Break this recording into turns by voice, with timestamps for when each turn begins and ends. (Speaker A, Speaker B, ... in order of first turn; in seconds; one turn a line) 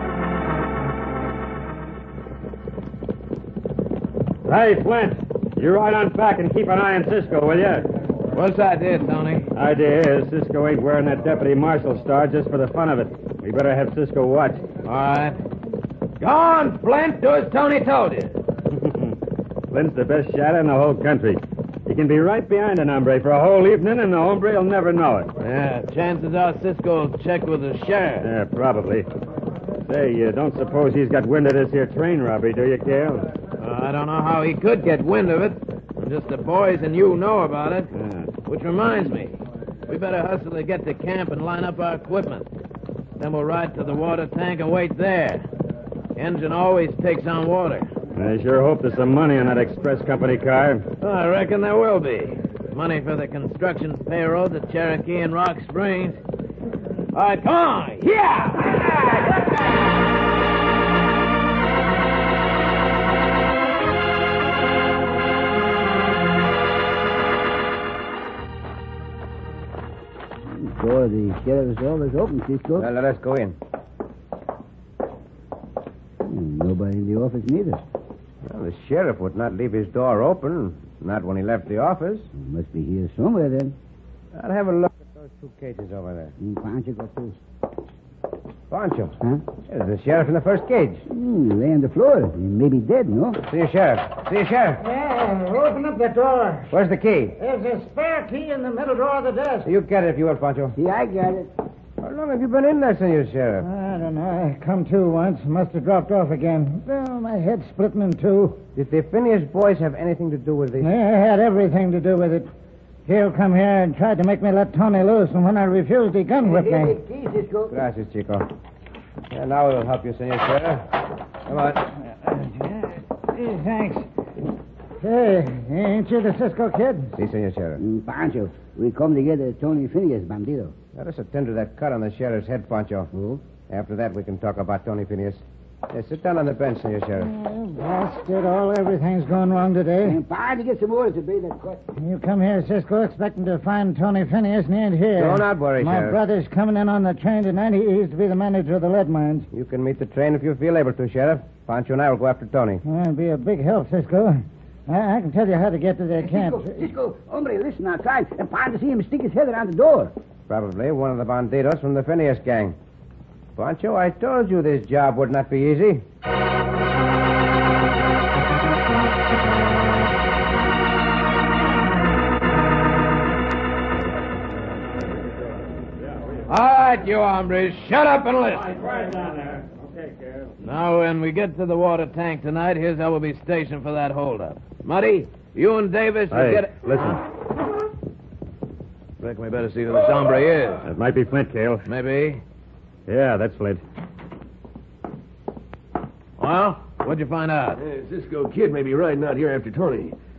Speaker A: 4.4-7.8
Speaker B: 8.3-9.5
Speaker A: 9.5-14.6
Speaker B: 14.8-15.4
Speaker B: 16.2-18.4
Speaker A: 18.8-19.2
Speaker A: 19.7-25.3
Speaker B: 25.4-28.3
Speaker A: 28.2-29.1
Speaker A: 29.9-33.3
Speaker B: 33.6-37.9
Speaker A: 37.9-38.3
Speaker B: 38.4-42.5
Speaker B: 43.2-45.4
Speaker B: 46.1-47.9
Speaker A: 48.1-50.8
Speaker B: 51.0-56.2
Speaker B: 57.1-59.4
Speaker C: 70.4-72.9
Speaker D: 72.8-73.6
Speaker C: 76.2-77.8
Speaker D: 78.4-82.3
Speaker C: 82.3-83.8
Speaker D: 84.3-86.3
Speaker C: 86.4-87.4
Speaker D: 88.7-91.0
Speaker C: 91.1-93.4
Speaker D: 93.5-94.8
Speaker E: 94.8-96.7
Speaker D: 96.7-97.4
Speaker E: 97.4-99.7
Speaker D: 99.6-100.8
Speaker C: 100.8-101.5
Speaker D: 102.0-103.7
Speaker E: 103.6-108.6
Speaker D: 108.7-110.9
Speaker E: 110.8-112.5
Speaker E: 113.0-117.0
Speaker C: 116.4-117.7
Speaker D: 117.7-118.5
Speaker D: 119.3-120.9
Speaker D: 121.5-121.9
Speaker E: 122.2-124.0
Speaker E: 125.0-127.1
Speaker D: 127.2-127.8
Speaker C: 127.8-130.7
Speaker D: 130.9-133.1
Speaker C: 133.1-133.4
Speaker D: 133.7-137.3
Speaker E: 137.2-140.2
Speaker C: 140.0-141.8
Speaker E: 142.0-149.5
Speaker D: 145.2-146.2
Speaker D: 149.5-152.8
Speaker E: 152.8-156.9
Speaker C: 156.2-160.1
Speaker D: 160.5-162.8
Speaker D: 163.6-166.0
Speaker A: 176.0-176.4
Speaker B: 176.5-178.7
Speaker A: 178.6-180.5
Speaker B: 180.6-187.2
Speaker A: 186.3-187.2
Speaker B: 189.2-190.9
Speaker A: 190.8-191.8
Speaker B: 191.8-192.4
Speaker A: 193.1-193.8
Speaker B: 196.4-197.8
Speaker F: 197.8-200.2